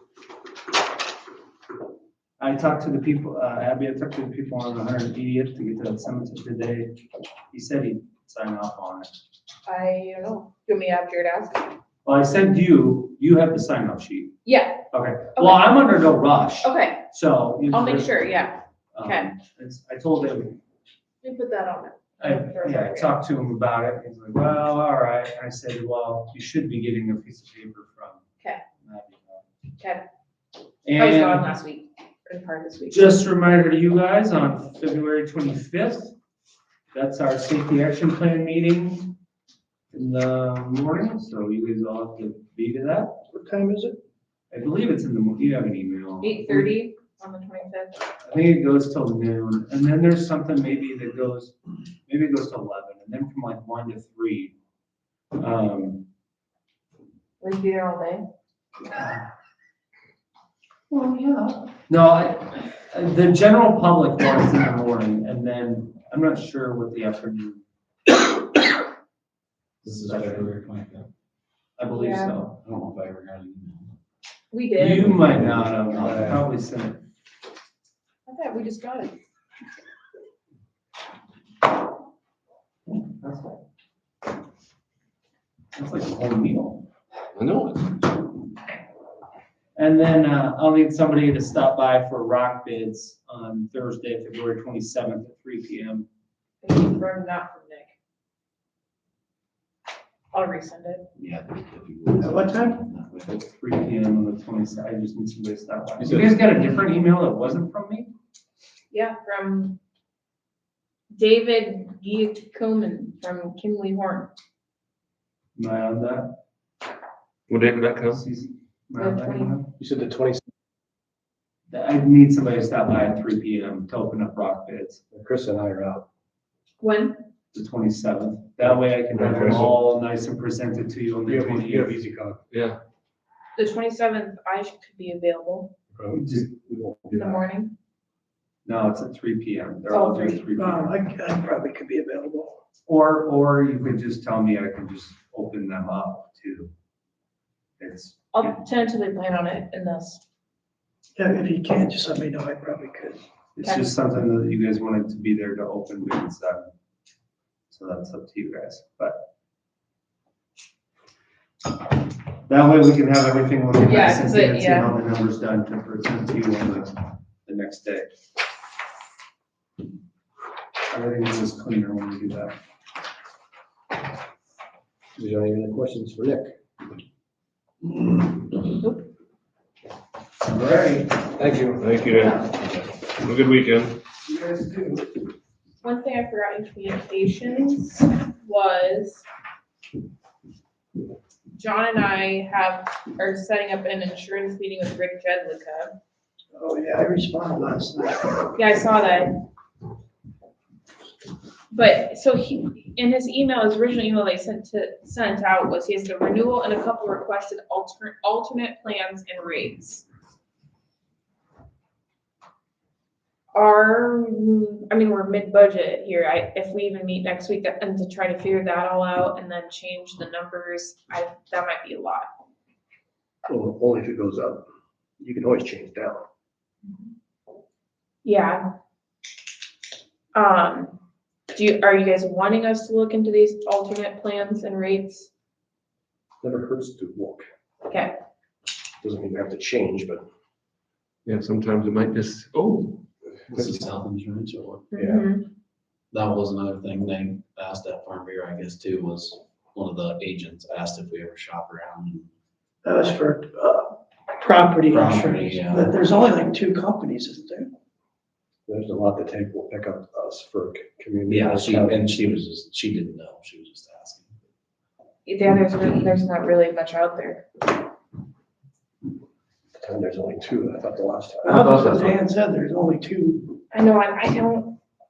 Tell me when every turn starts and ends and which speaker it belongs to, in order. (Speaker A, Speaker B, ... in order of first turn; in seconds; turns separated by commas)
Speaker A: 2.4-7.0, Speaker A: 7.5-9.1, Speaker B: 9.7-11.6, Speaker A: 12.1-14.3, Speaker B: 14.4-14.8, Speaker A: 14.9-18.1, Speaker B: 15.4-15.7, Speaker B: 16.6-17.0, Speaker B: 17.7-19.3, Speaker A: 18.9-20.6, Speaker B: 21.2-23.1, Speaker A: 22.2-28.2, Speaker A: 28.8-29.5, Speaker A: 30.8-31.4, Speaker B: 30.9-33.2, Speaker A: 32.9-36.1, Speaker A: 36.9-39.1, Speaker A: 39.9-43.2, Speaker C: 43.3-44.0, Speaker A: 44.5-46.7, Speaker B: 46.2-48.0, Speaker A: 48.2-51.5, Speaker A: 52.1-54.5, Speaker A: 55.4-56.0, Speaker B: 57.4-58.2, Speaker A: 58.9-59.3, Speaker A: 60.9-67.6, Speaker D: 69.8-71.1, Speaker A: 69.9-70.5, Speaker A: 71.8-72.6, Speaker B: 71.9-72.3, Speaker D: 72.6-73.9, Speaker B: 74.5-75.3, Speaker A: 74.8-77.0, Speaker D: 75.2-76.4, Speaker B: 78.3-79.1, Speaker A: 82.9-83.6, Speaker A: 85.7-86.9, Speaker E: 87.3-88.0, Speaker A: 89.8-96.1, Speaker B: 96.6-97.9, Speaker B: 100.3-101.0, Speaker D: 101.2-103.4, Speaker C: 102.2-102.8, Speaker A: 103.3-108.1, Speaker B: 108.9-109.8, Speaker B: 111.1-114.3, Speaker A: 115.6-116.4, Speaker E: 117.5-118.2, Speaker A: 118.1-119.7, Speaker B: 119.0-119.6, Speaker F: 119.8-120.4, Speaker A: 121.7-125.0, Speaker F: 125.1-126.0, Speaker B: 126.8-127.2, Speaker A: 127.5-132.0, Speaker E: 129.1-129.7, Speaker F: 131.3-132.4, Speaker E: 132.5-132.8, Speaker B: 133.6-135.7, Speaker F: 135.9-137.4, Speaker A: 136.1-136.5, Speaker B: 137.1-137.7, Speaker A: 138.7-141.6, Speaker B: 139.9-140.9, Speaker C: 140.6-142.6, Speaker A: 142.9-146.7, Speaker A: 147.8-148.6, Speaker B: 148.3-150.2, Speaker C: 151.2-153.2, Speaker A: 153.6-156.7, Speaker A: 157.7-159.2, Speaker A: 162.5-168.1, Speaker B: 163.8-164.9, Speaker A: 170.9-172.6, Speaker C: 175.2-175.5, Speaker F: 175.2-176.5, Speaker B: 178.8-179.1, Speaker F: 181.0-181.9, Speaker E: 181.8-182.6, Speaker E: 183.2-184.0, Speaker B: 185.8-189.2, Speaker B: 191.5-195.9, Speaker C: 196.5-198.5, Speaker B: 198.5-199.4, Speaker B: 201.7-210.0, Speaker B: 213.5-222.2, Speaker F: 223.5-224.6, Speaker F: 225.2-226.2, Speaker B: 228.2-228.6, Speaker B: 230.3-231.0, Speaker B: 231.5-235.3, Speaker F: 236.4-237.4, Speaker B: 237.9-238.1, Speaker F: 239.0-240.2, Speaker E: 241.2-243.8, Speaker D: 243.5-244.8, Speaker B: 244.9-245.5, Speaker D: 246.1-252.3, Speaker C: 252.8-257.7, Speaker D: 254.9-256.0, Speaker F: 258.7-262.1, Speaker D: 261.3-264.3, Speaker B: 265.2-267.4, Speaker F: 269.8-271.6, Speaker C: 271.4-273.6, Speaker E: 271.6-272.2, Speaker B: 273.7-274.8